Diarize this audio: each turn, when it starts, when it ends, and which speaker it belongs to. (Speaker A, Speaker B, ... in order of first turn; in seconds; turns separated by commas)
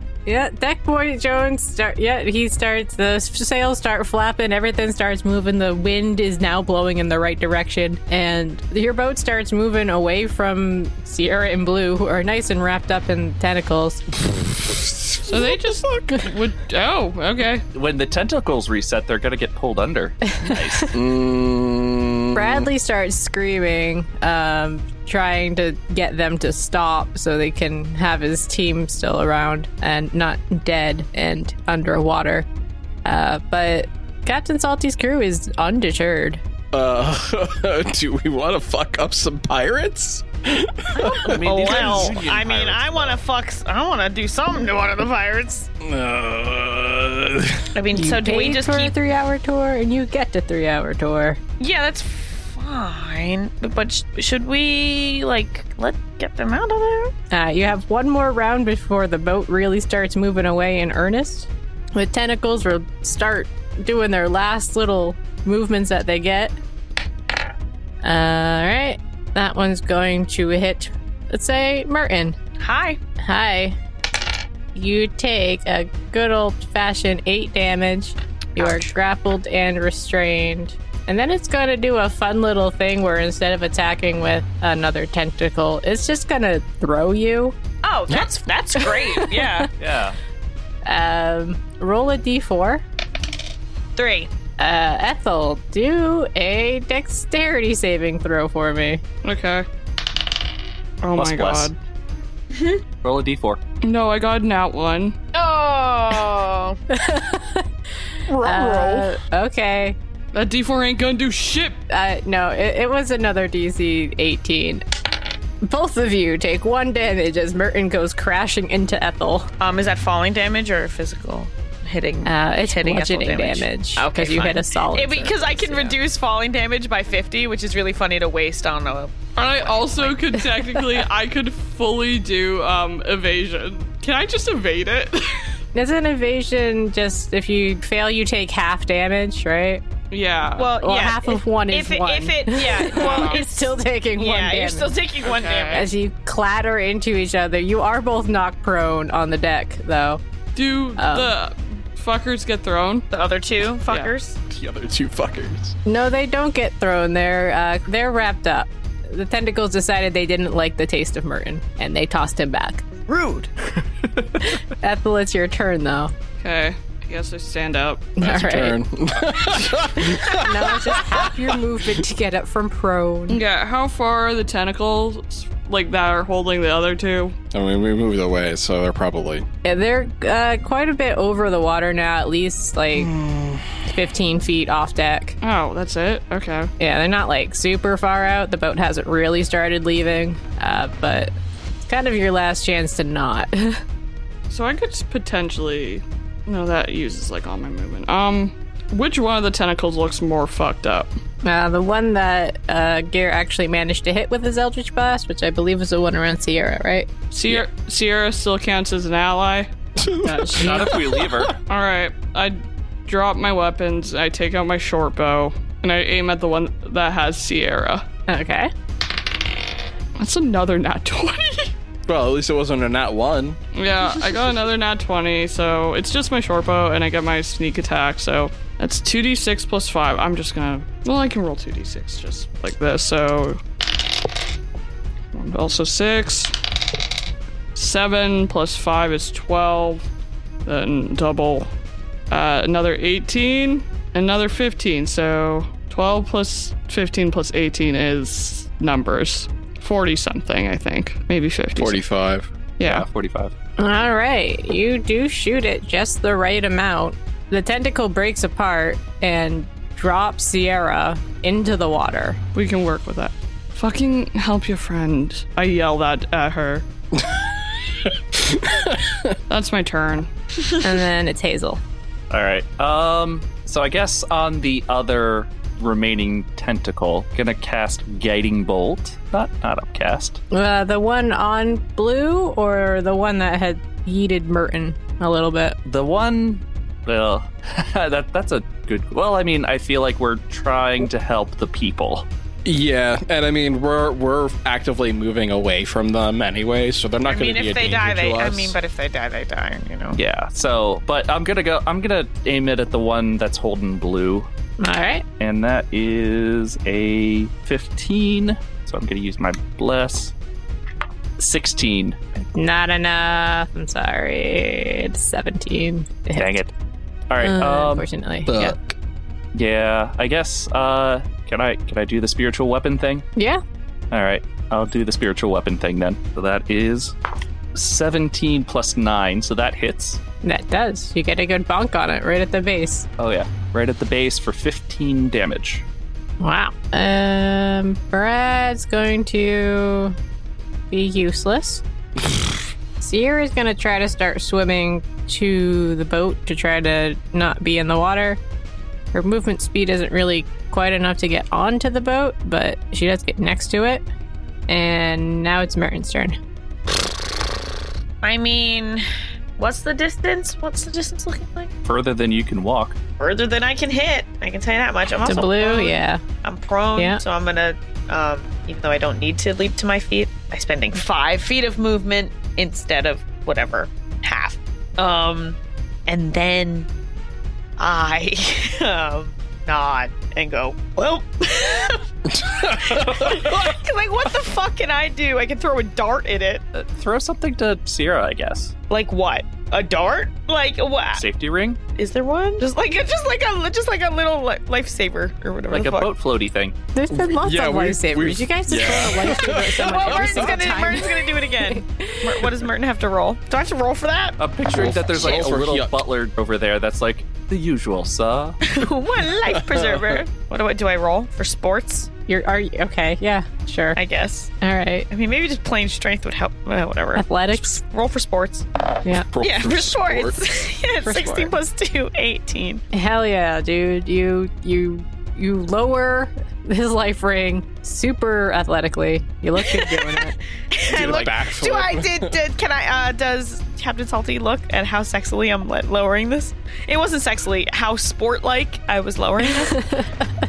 Speaker A: 0.2-14.1, Speaker B: 14.2-16.2, Speaker C: 15.2-17.6, Speaker D: 17.7-20.9, Speaker B: 20.9-22.7, Speaker A: 22.3-32.5, Speaker A: 33.0-36.4, Speaker B: 36.7-42.2, Speaker D: 41.1-43.2, Speaker E: 41.3-45.7, Speaker B: 45.8-47.7, Speaker E: 47.7-48.9, Speaker A: 47.9-51.4, Speaker E: 51.6-57.1, Speaker A: 57.3-66.5, Speaker A: 68.0-72.4, Speaker E: 72.6-73.0, Speaker A: 73.2-73.8, Speaker A: 74.7-87.5, Speaker E: 78.6-78.9, Speaker E: 87.8-89.7, Speaker A: 88.8-89.6, Speaker D: 89.8-90.2, Speaker A: 90.8-92.8, Speaker E: 94.0-94.3, Speaker A: 94.6-99.0, Speaker C: 99.2-99.7, Speaker C: 101.0-101.8, Speaker D: 101.1-101.7, Speaker E: 102.5-102.8, Speaker D: 103.0-103.6, Speaker C: 103.8-105.2, Speaker E: 105.3-106.8, Speaker A: 106.9-107.7, Speaker E: 108.3-109.0, Speaker A: 108.4-110.0, Speaker C: 110.3-111.8, Speaker A: 111.9-114.8, Speaker A: 115.6-119.5, Speaker E: 119.6-130.2, Speaker A: 122.2-126.0, Speaker C: 129.3-135.5, Speaker A: 130.5-130.8, Speaker A: 135.7-139.8, Speaker C: 140.1-140.7, Speaker E: 140.6-145.9, Speaker A: 140.8-145.0, Speaker C: 142.9-143.4, Speaker C: 145.2-145.8, Speaker A: 145.7-150.2, Speaker C: 150.5-153.1, Speaker A: 151.0-151.3, Speaker E: 153.1-154.4, Speaker B: 154.5-155.7, Speaker A: 155.8-162.8, Speaker E: 163.0-163.5, Speaker A: 164.7-166.1, Speaker C: 166.4-168.1, Speaker A: 168.2-168.8, Speaker B: 168.2-171.3, Speaker A: 170.1-173.4, Speaker C: 173.3-177.3, Speaker B: 177.5-179.4, Speaker A: 179.6-183.1, Speaker B: 182.9-183.7, Speaker A: 183.9-185.4, Speaker C: 185.4-186.7, Speaker A: 186.8-191.3, Speaker A: 191.9-193.8, Speaker C: 194.5-201.1, Speaker A: 201.4-207.1, Speaker C: 207.3-209.7, Speaker B: 210.0-211.5, Speaker A: 210.3-210.8, Speaker D: 210.6-211.5, Speaker C: 211.7-218.0, Speaker A: 218.3-218.7, Speaker C: 220.2-221.7, Speaker B: 222.1-223.6, Speaker C: 223.7-233.6, Speaker C: 235.3-236.5, Speaker C: 237.7-240.0, Speaker C: 240.6-241.7, Speaker C: 242.3-252.0, Speaker B: 251.8-252.5, Speaker C: 252.8-253.1, Speaker D: 252.8-253.5, Speaker A: 253.8-262.4, Speaker C: 262.5-266.8, Speaker B: 267.1-269.4, Speaker C: 269.5-270.3, Speaker A: 270.8-271.8, Speaker D: 272.3-280.4, Speaker A: 280.5-285.8, Speaker D: 285.9-292.3, Speaker B: 292.6-298.8, Speaker E: 297.2-300.2, Speaker D: 300.1-304.5, Speaker A: 304.8-305.2, Speaker D: 305.4-310.3, Speaker D: 311.4-312.2, Speaker A: 312.4-316.6, Speaker D: 316.4-316.7, Speaker D: 317.3-318.1, Speaker A: 317.4-318.7, Speaker B: 318.5-318.9, Speaker D: 319.5-323.2, Speaker A: 323.4-323.6, Speaker D: 324.1-327.1, Speaker D: 327.7-330.2, Speaker A: 330.4-333.1, Speaker D: 333.2-335.8, Speaker A: 336.4-340.1, Speaker A: 340.9-341.8, Speaker A: 343.0-348.4, Speaker A: 349.1-354.0, Speaker A: 354.7-356.4, Speaker E: 358.2-359.0, Speaker E: 359.6-361.7, Speaker D: 361.8-363.0, Speaker E: 363.2-376.9, Speaker A: 365.2-366.2, Speaker E: 377.8-386.6, Speaker B: 382.3-383.8, Speaker D: 386.7-388.7, Speaker E: 388.9-391.2, Speaker D: 391.1-391.8, Speaker E: 391.9-396.1, Speaker D: 395.7-396.8, Speaker A: 396.9-402.4, Speaker B: 397.1-400.6, Speaker E: 399.8-404.4, Speaker D: 404.4-408.6, Speaker B: 404.7-405.9, Speaker E: 405.1-405.5, Speaker E: 408.7-412.1, Speaker B: 409.4-410.2, Speaker A: 412.3-414.0, Speaker E: 413.9-414.5, Speaker A: 414.6-415.1, Speaker E: 415.1-418.7, Speaker A: 417.1-417.8, Speaker B: 419.3-420.4, Speaker E: 419.4-422.8, Speaker A: 421.0-421.5, Speaker A: 422.9-430.4, Speaker E: 430.7-439.9, Speaker B: 430.8-432.4, Speaker A: 439.7-440.2